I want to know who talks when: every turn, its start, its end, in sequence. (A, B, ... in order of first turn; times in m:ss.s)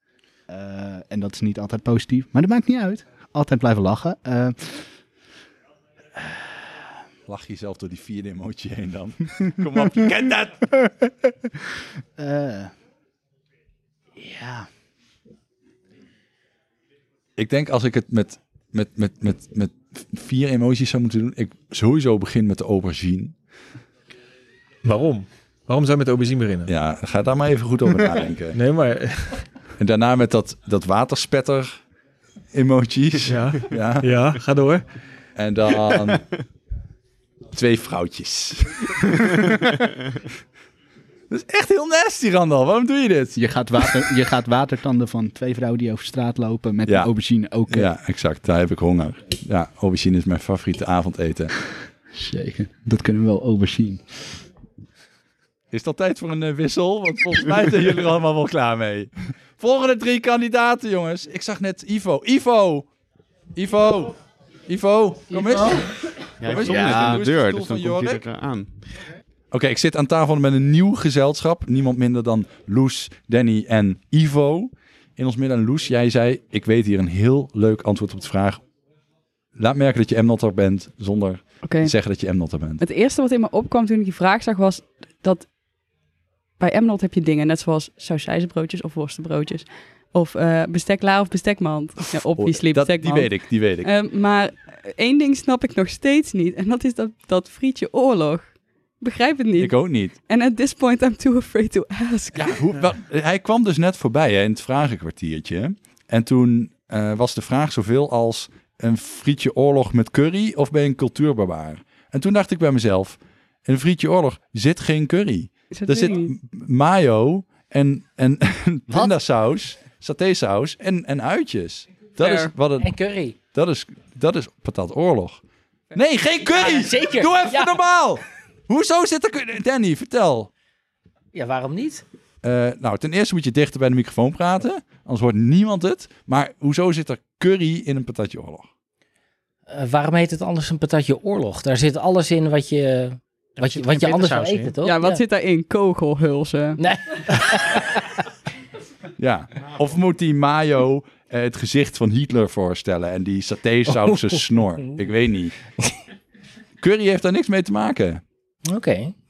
0:00.5-0:04.9 A
0:06.2-0:06.8 A
0:07.3-0:10.7 B
0:12.2-0:12.7 A
0:14.2-0:14.7 A
0:17.4-0:23.3 B
0:24.8-0:26.7 C
0:26.7-0:28.6 B
0:28.5-0:29.5 C
0:29.8-0:31.8 B
0:32.5-0:34.1 B
0:33.3-0:34.9 C
0:35.4-0:36.3 B
0:37.5-0:39.8 B
0:41.3-0:43.4 B
0:43.4-0:47.9 A
0:47.7-0:51.5 B
0:52.1-0:54.0 A
0:55.7-1:02.9 B
1:03.6-1:08.2 B
1:06.4-1:09.0 D
1:09.5-1:18.6 B
1:19.6-1:22.8 B
1:21.6-1:22.0 E
1:22.8-1:25.5 E
1:26.6-1:42.6 E
1:32.1-1:33.9 B
1:39.6-1:40.2 B
1:42.3-2:05.4 B
1:55.7-1:56.3 E
1:58.9-1:59.1 F
2:02.2-2:02.5 E
2:02.8-2:03.4 F
2:05.9-2:10.5 B
2:06.5-2:07.8 F
2:11.3-2:12.0 F
2:12.4-2:18.7 B
2:19.7-2:25.2 F
2:24.8-2:26.8 E
2:26.8-2:28.0 F
2:29.2-2:35.6 B
2:33.9-2:35.0 F
2:36.8-2:38.2 B
2:38.6-2:39.1 F